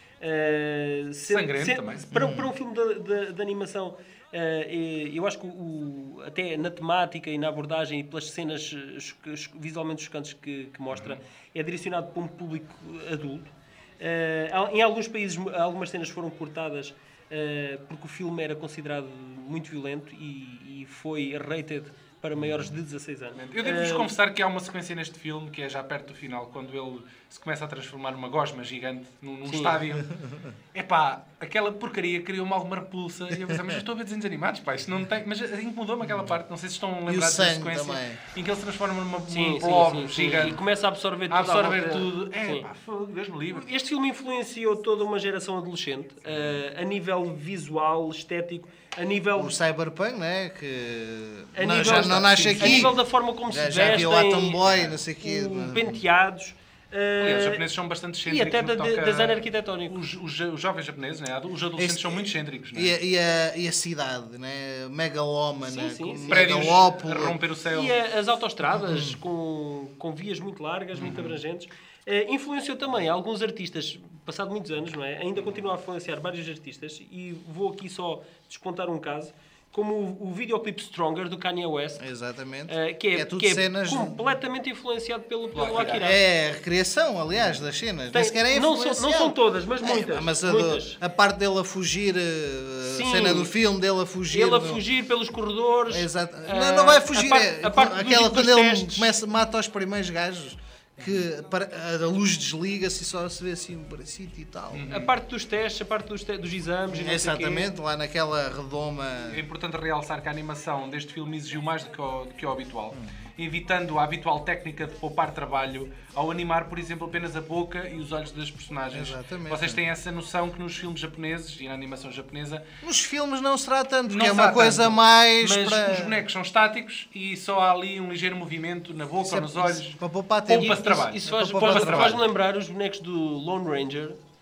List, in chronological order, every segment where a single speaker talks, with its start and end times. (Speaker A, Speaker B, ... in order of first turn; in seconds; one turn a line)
Speaker A: 0.2-24.1
Speaker B: 1.3-2.1
Speaker C: 2.1-2.5
Speaker B: 10.9-11.2
Speaker C: 22.4-22.8
Speaker B: 23.3-30.1
Speaker A: 29.4-29.8
Speaker C: 30.0-30.5
Speaker B: 30.7-40.6
Speaker C: 33.5-33.8
Speaker C: 36.0-36.4
Speaker C: 37.1-38.2
Speaker A: 39.3-42.6
Speaker B: 41.3-43.7
Speaker A: 43.5-49.5
Speaker C: 49.4-56.0
Speaker A: 51.5-54.6
Speaker B: 51.8-52.9
Speaker B: 53.8-54.1
Speaker B: 54.6-55.0
Speaker A: 55.2-57.6
Speaker B: 57.2-63.0
Speaker A: 58.2-60.0
Speaker C: 61.8-67.4
Speaker A: 65.6-66.8
Speaker B: 66.3-67.9
Speaker A: 67.7-82.0
Speaker C: 68.7-69.2
Speaker B: 71.0-71.4
Speaker C: 82.0-84.3
Speaker A: 82.7-86.2
Speaker B: 85.5-86.1
Speaker C: 86.0-94.8
Speaker A: 88.1-91.0
Speaker A: 92.8-93.5
Speaker A: 94.3-99.1
Speaker C: 95.9-104.9
Speaker B: 104.7-105.1
Speaker A: 104.9-107.7
Speaker C: 106.9-109.4
Speaker B: 109.3-122.6
Speaker C: 112.9-113.2
Speaker C: 118.9-119.8
Speaker C: 122.8-126.2
Speaker B: 124.1-129.9
Speaker C: 129.2-132.2
Speaker B: 130.5-132.2
Speaker A: 130.6-134.2